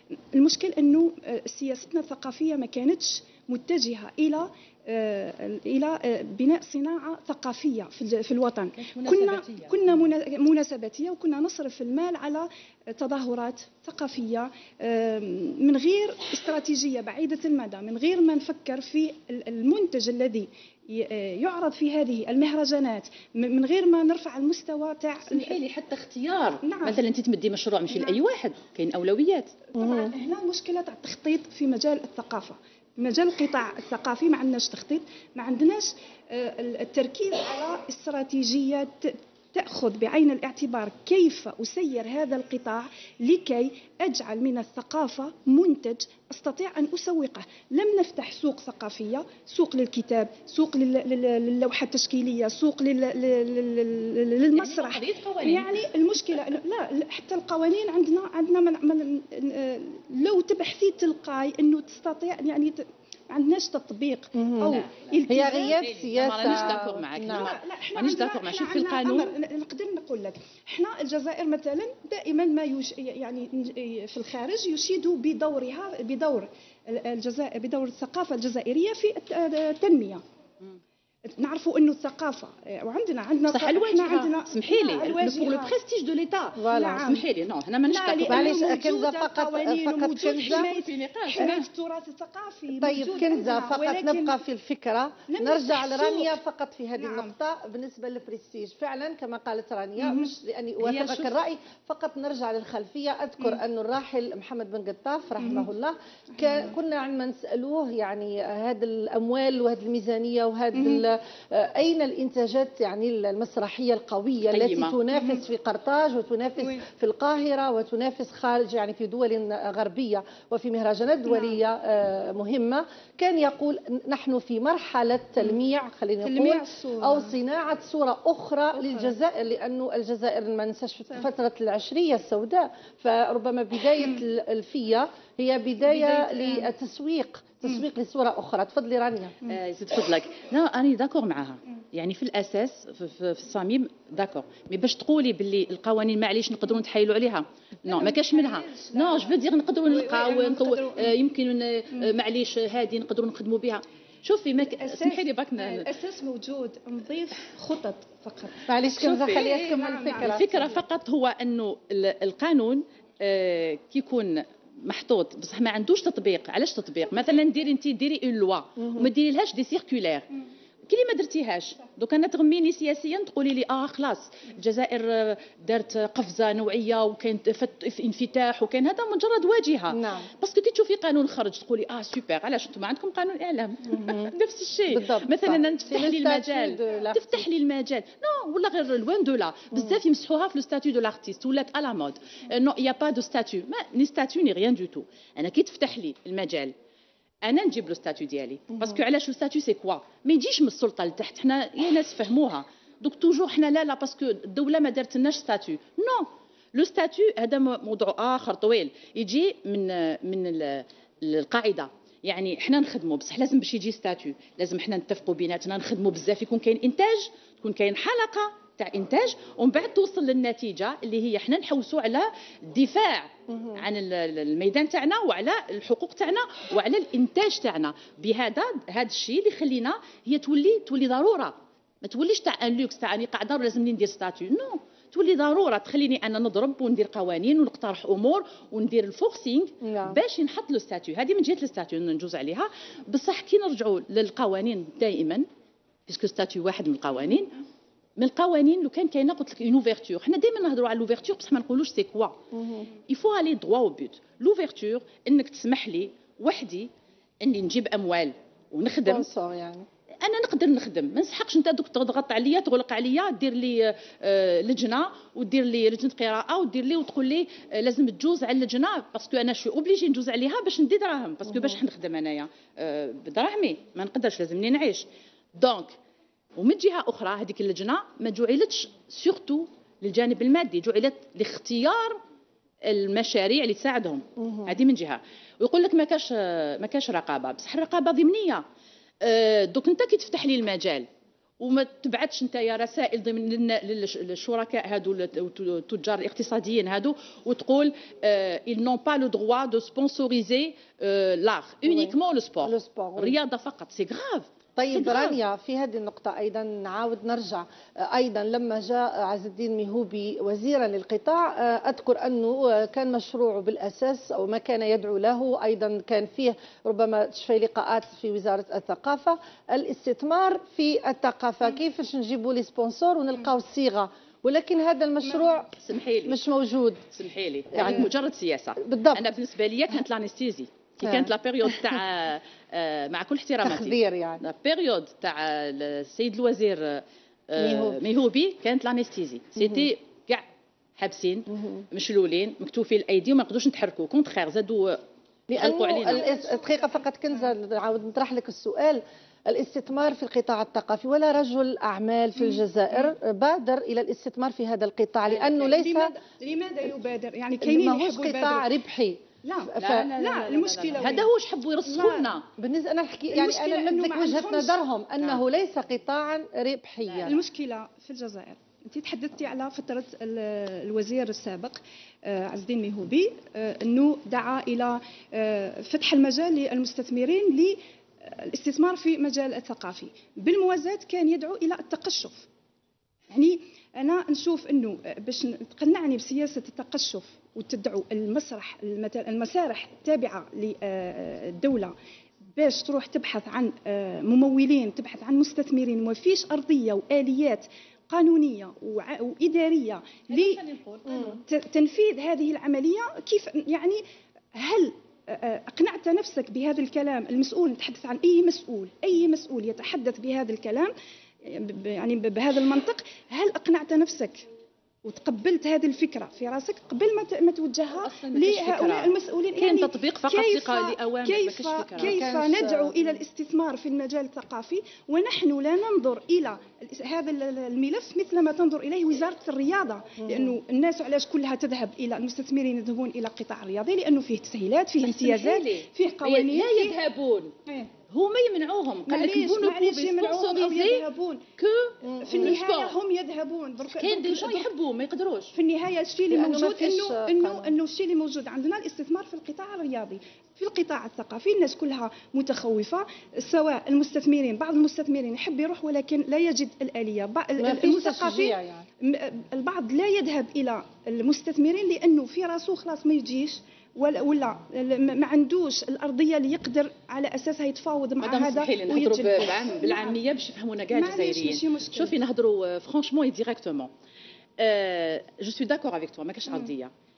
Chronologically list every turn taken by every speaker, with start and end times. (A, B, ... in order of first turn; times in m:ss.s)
0:00.3-0:25.6 A
0:08.8-0:09.9 B
0:25.3-0:29.5 B
0:26.6-0:27.0 A
0:29.7-1:05.8 A
0:29.8-0:30.1 C
0:54.5-0:55.7 B
1:04.4-1:07.5 C
1:04.6-1:09.3 B
1:06.4-1:20.2 A
1:21.2-1:25.7 A
1:23.5-1:28.6 B
1:26.6-1:27.0 C
1:26.6-1:27.2 A
1:27.9-1:34.4 A
1:28.2-1:30.6 C
1:30.4-1:31.6 B
1:32.8-2:19.4 C
1:35.3-1:36.3 A
1:37.0-1:37.3 A
1:40.0-1:40.3 A
1:40.8-1:41.4 B
1:45.4-1:45.7 A
1:46.3-1:46.7 A
1:50.7-1:51.0 A
1:54.4-1:55.0 B
2:01.3-2:01.6 A
2:06.2-2:07.3 A
2:15.8-2:16.7 A
2:19.4-2:35.8 B
2:27.9-2:29.3 A
2:29.9-2:31.1 A
2:34.8-2:38.6 A
2:38.6-2:40.7 C
2:39.0-2:39.4 B
2:39.3-2:40.3 A
2:40.2-2:50.3 B
2:48.8-2:49.1 C
2:50.9-3:16.7 B
2:59.9-3:00.3 C
3:03.9-3:04.3 C
3:04.9-3:07.4 C
3:17.4-4:05.4 B
3:43.5-3:43.8 C
3:59.8-4:00.2 C
4:06.1-4:07.5 B
4:08.2-4:12.4 B
4:12.5-4:12.9 C
4:13.1-4:16.9 B
4:17.4-4:19.3 B
4:19.0-4:19.8 C
4:20.2-4:35.9 B
4:36.6-4:42.2 B
4:42.8-4:48.6 B
4:44.4-4:44.7 C
4:49.2-4:51.0 B
4:51.6-5:05.4 B
5:01.9-5:02.1 C
5:02.6-5:03.4 C
5:04.8-5:25.7 C
5:25.8-5:26.4 B
5:26.3-5:27.0 C
5:27.1-5:40.4 B
5:27.7-5:28.1 C
5:28.8-5:29.2 C
5:33.6-5:34.4 C
5:37.6-5:38.0 C
5:41.0-5:45.0 B
5:45.5-5:56.1 C
5:45.5-5:46.2 B
5:46.1-5:47.0 A
5:55.3-5:58.7 A
5:57.6-5:59.2 C
5:59.4-6:01.3 A
5:59.7-6:00.1 C
5:59.8-6:02.4 B
6:01.8-6:02.3 A
6:02.6-6:07.4 C
6:03.3-6:04.8 A
6:07.0-6:07.3 B
6:07.2-6:22.4 A
6:23.3-6:31.9 A
6:32.6-6:40.6 A
6:40.3-6:41.4 B
6:41.2-6:44.0 A
6:44.5-6:50.9 A
6:51.4-6:54.4 A
6:55.0-7:17.0 A
6:58.0-7:02.2 B
7:02.0-7:03.0 C
7:10.2-7:10.6 C
7:15.0-7:17.5 B
7:18.1-7:21.0 B
7:19.0-7:21.4 A
7:21.6-7:23.0 B
7:22.0-7:22.5 C
7:22.2-7:24.7 A
7:23.8-7:25.5 B
7:25.5-7:50.2 A
7:26.3-7:27.7 C
7:37.6-7:38.9 C
7:48.2-7:53.9 B
7:50.9-7:52.1 A
7:54.6-7:56.9 B